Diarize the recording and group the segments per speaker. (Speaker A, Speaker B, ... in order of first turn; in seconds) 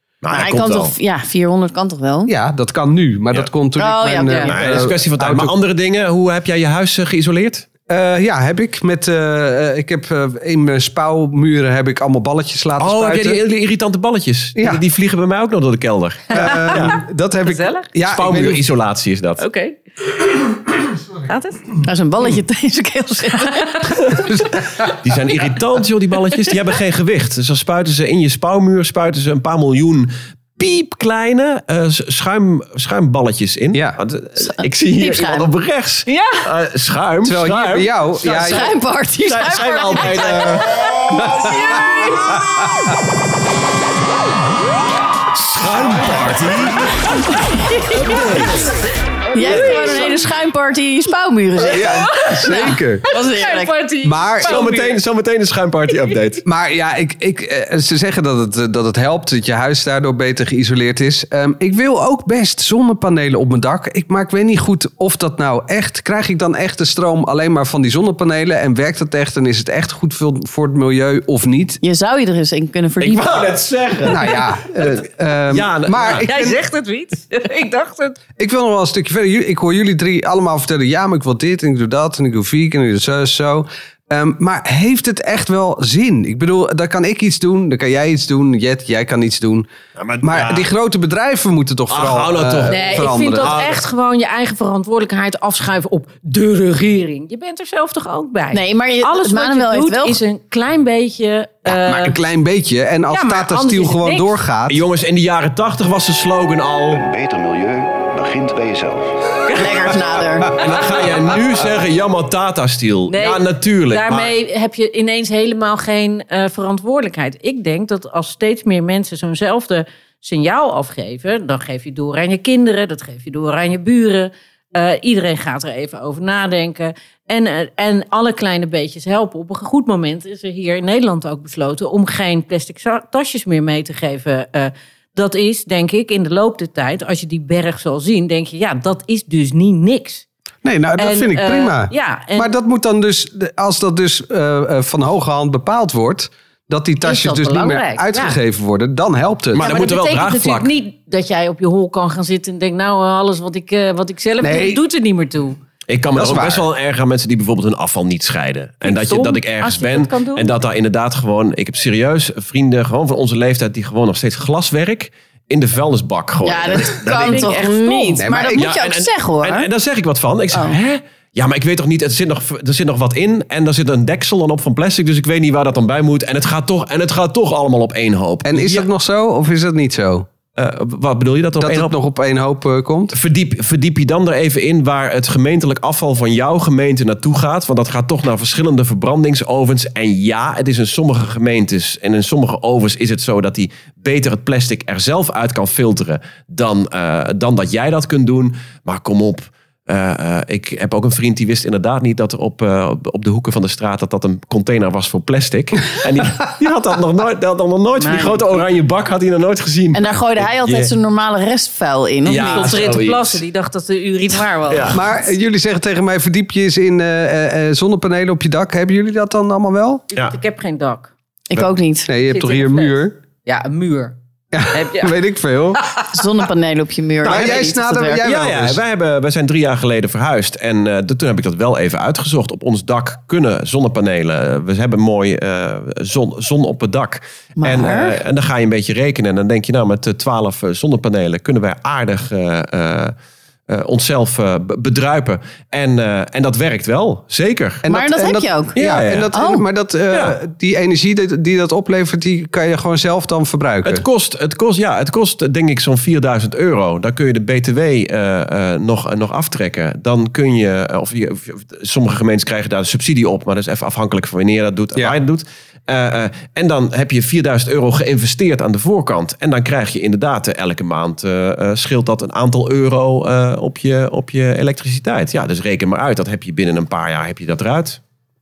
Speaker A: 0.2-0.9, 4.5-7.7, 12.8-17.0, 18.1-19.4, 25.0-41.3, 45.3-47.0, 48.1-48.5, 54.4-56.4, 73.0-74.5, 75.5-76.3, 90.0-90.7, 91.9-93.8, 104.7-107.0, 110.5-114.3, 149.5-150.7, 155.9-167.6, 168.6-178.9, 180.6-181.9, 183.1-210.9, 212.2-213.4, 214.7-215.0, 228.2-243.2, 243.7-247.8, 248.8-249.3, 253.8-278.0
Speaker B: 0.3-2.3, 3.8-4.6, 21.8-23.8, 34.4-35.5, 38.3-41.5, 47.4-48.3, 49.3-53.8, 71.8-73.5, 98.5-100.2, 109.5-110.6, 166.4-169.7, 170.5-170.8, 209.9-212.9, 221.5-222.1, 226.1-228.2, 237.6-238.2, 247.9-248.8, 249.3-249.6
Speaker C: 2.3-5.5, 7.9-13.4, 14.6-14.8, 16.3-18.6, 24.1-24.9, 33.7-34.0, 37.2-38.7, 41.2-41.5, 51.6-53.1, 54.0-54.7, 56.5-71.8, 74.0-76.6, 78.4-89.7, 90.2-93.6, 101.7-104.8, 140.6-149.7, 154.4-154.8, 156.1-156.7, 168.2-168.7, 178.4-180.3, 181.6-183.2, 214.9-220.1, 222.1-223.2, 224.5-225.8, 227.2-228.8, 247.8-254.1
Speaker D: 4.3-4.5, 17.4-17.9, 19.4-21.8, 23.4-23.9, 36.1-36.5, 41.7-42.1, 49.4-50.1, 51.8-55.0, 76.2-78.2, 92.7-102.2, 103.1-104.4, 109.5-109.9, 110.6-111.2, 113.1-140.2, 141.0-142.5, 147.0-148.4, 149.6-155.6, 158.8-160.6, 166.8-168.2, 208.0-208.6, 212.4-215.1, 220.1-221.1, 222.3-224.2, 224.7-225.2, 225.8-226.1
Speaker E: 106.9-109.4